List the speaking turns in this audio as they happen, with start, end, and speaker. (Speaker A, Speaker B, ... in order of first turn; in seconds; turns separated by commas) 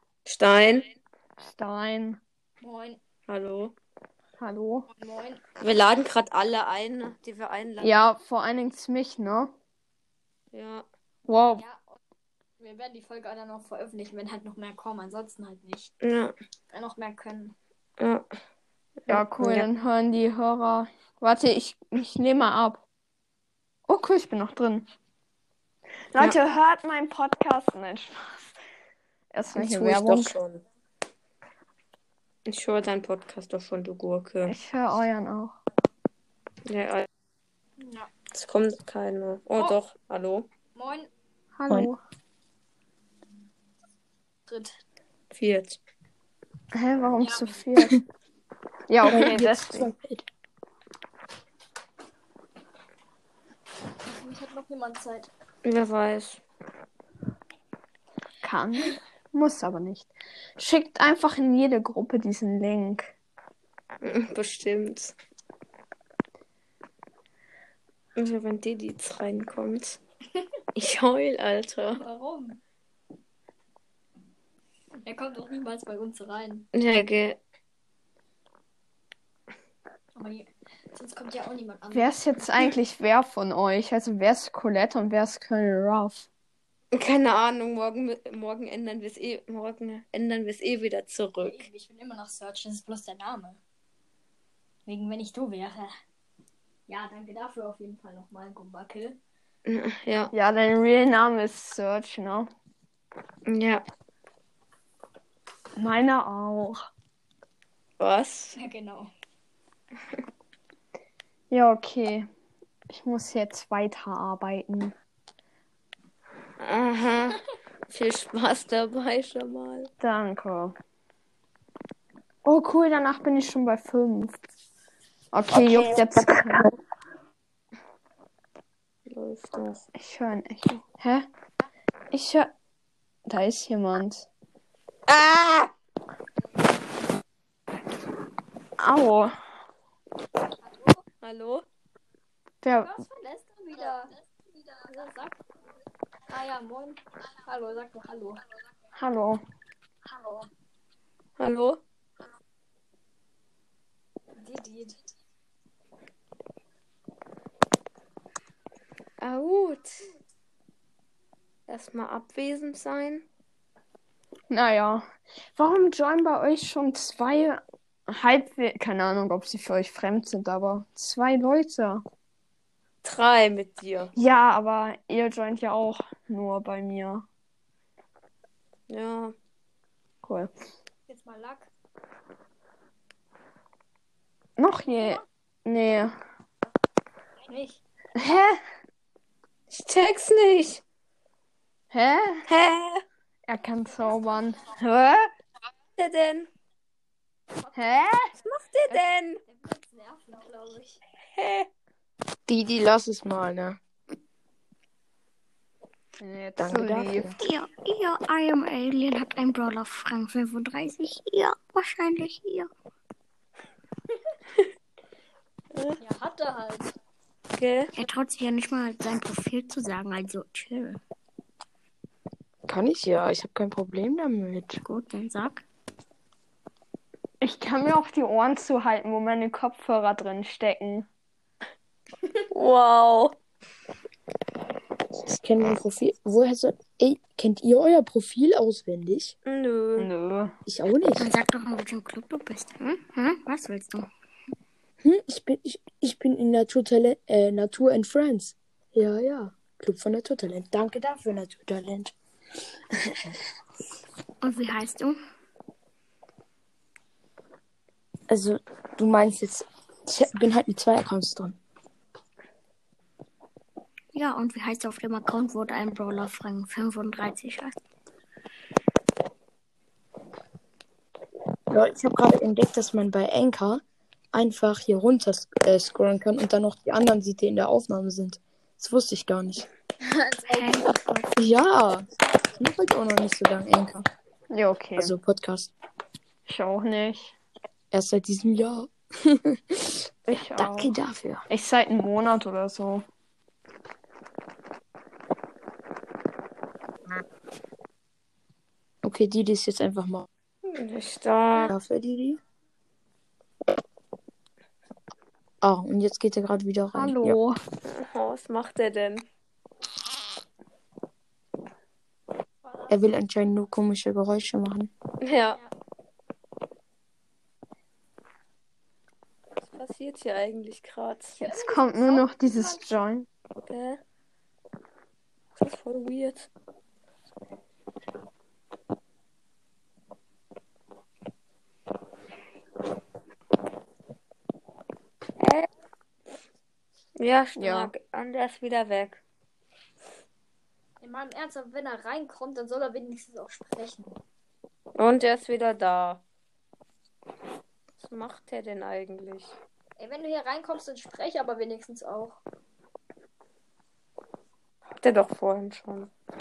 Speaker A: 0.3-0.9, Speaker B: 1.4-2.2, Speaker C: 2.6-3.0, Speaker A: 3.3-3.7, Speaker B: 4.4-4.9, Speaker C: 4.9-5.4, Speaker A: 5.6-7.9, Speaker B: 7.8-9.5, Speaker A: 10.5-10.9, Speaker B: 11.3-11.6, Speaker C: 11.6-12.0, Speaker C: 12.6-15.9, Speaker A: 16.0-16.4, Speaker C: 16.7-17.6, Speaker A: 18.0-18.2, Speaker B: 19.1-22.8, Speaker A: 19.2-19.7, Speaker B: 23.9-24.9, Speaker B: 26.1-28.5, Speaker B: 29.3-30.4, Speaker A: 29.6-30.6, Speaker A: 32.5-34.5, Speaker B: 34.5-35.6, Speaker A: 36.7-37.1, Speaker C: 37.8-38.1, Speaker A: 38.3-40.5, Speaker C: 40.8-41.1, Speaker B: 41.6-42.0, Speaker C: 44.5-44.8, Speaker A: 45.3-45.8, Speaker B: 46.7-48.0, Speaker C: 47.2-47.6, Speaker B: 48.9-49.9, Speaker D: 49.0-50.2, Speaker C: 54.0-55.3, Speaker A: 55.6-56.4, Speaker B: 58.4-63.1, Speaker A: 64.0-65.2, Speaker A: 68.2-70.0, Speaker A: 70.8-72.0, Speaker C: 72.0-72.6, Speaker C: 75.0-76.7, Speaker A: 76.7-77.4, Speaker C: 80.2-82.7, Speaker B: 81.9-86.3, Speaker A: 86.9-91.7, Speaker C: 91.4-93.6, Speaker C: 94.9-95.9, Speaker C: 96.9-99.2, Speaker A: 99.7-100.3, Speaker B: 100.3-102.5, Speaker A: 103.5-103.8, Speaker B: 105.8-106.8, Speaker A: 108.0-108.6, Speaker C: 108.6-109.1, Speaker B: 111.5-112.3, Speaker B: 112.9-115.0, Speaker A: 116.6-119.9, Speaker B: 120.0-120.8, Speaker B: 122.5-124.4, Speaker B: 125.3-126.6, Speaker A: 125.5-126.7, Speaker A: 129.1-129.8, Speaker B: 130.0-131.3, Speaker B: 132.1-132.5, Speaker B: 133.3-134.3, Speaker A: 135.1-135.7, Speaker B: 138.8-139.3, Speaker C: 140.6-141.0, Speaker A: 141.2-141.7, Speaker B: 142.6-142.9, Speaker C: 142.8-144.1, Speaker C: 144.8-145.4, Speaker C: 146.3-148.4, Speaker B: 149.0-149.4, Speaker C: 150.1-150.5, Speaker A: 151.4-151.8, Speaker C: 154.4-155.0, Speaker A: 159.2-160.1, Speaker A: 161.7-163.2, Speaker B: 164.5-172.0, Speaker A: 173.0-174.1, Speaker B: 174.2-177.3, Speaker A: 178.9-179.3, Speaker B: 180.2-180.5, Speaker C: 181.1-181.7, Speaker B: 184.6-186.2, Speaker C: 187.5-187.8, Speaker B: 188.2-188.6, Speaker A: 189.7-190.8, Speaker B: 191.9-192.5, Speaker A: 192.5-193.0, Speaker B: 193.5-195.3, Speaker A: 196.0-196.5, Speaker C: 197.6-198.1, Speaker B: 197.8-198.3, Speaker A: 198.4-199.4, Speaker C: 198.9-201.0, Speaker A: 201.3-201.7, Speaker D: 202.5-203.8, Speaker B: 206.2-207.3, Speaker D: 206.6-207.4, Speaker E: 207.4-212.7, Speaker A: 215.7-216.0, Speaker C: 216.0-216.9, Speaker A: 217.6-217.9, Speaker E: 217.9-221.0, Speaker D: 222.7-224.8, Speaker E: 224.8-225.6, Speaker B: 227.4-231.1, Speaker A: 232.5-233.4, Speaker D: 235.2-239.3, Speaker A: 239.5-240.1, Speaker B: 240.0-240.6, Speaker D: 240.7-241.3, Speaker E: 241.2-244.1, Speaker D: 245.0-252.1, Speaker E: 254.4-255.2, Speaker D: 258.3-261.6, Speaker E: 264.1-267.8, Speaker D: 271.7-273.8, Speaker D: 274.3-279.7, Speaker E: 280.4-281.4, Speaker D: 281.4-284.1, Speaker B: 284.5-285.1, Speaker D: 285.0-285.7, Speaker B: 286.5-287.3, Speaker D: 287.9-291.4, Speaker B: 290.3-290.9, Speaker B: 291.5-293.1, Speaker D: 299.0-300.3, Speaker A: 300.6-301.7, Speaker D: 301.6-302.4, Speaker D: 305.6-307.4, Speaker B: 306.9-307.6, Speaker A: 307.8-309.3, Speaker C: 312.6-313.0, Speaker D: 312.9-314.9, Speaker A: 315.2-315.6, Speaker A: 319.6-321.4, Speaker C: 321.4-322.9, Speaker B: 321.4-323.3, Speaker A: 323.7-324.0, Speaker A: 325.6-326.5, Speaker A: 335.4-335.7, Speaker A: 337.2-339.2, Speaker B: 337.6-337.9, Speaker C: 341.0-344.1, Speaker A: 345.0-346.2, Speaker A: 348.0-349.5, Speaker C: 350.0-352.4, Speaker A: 355.0-356.1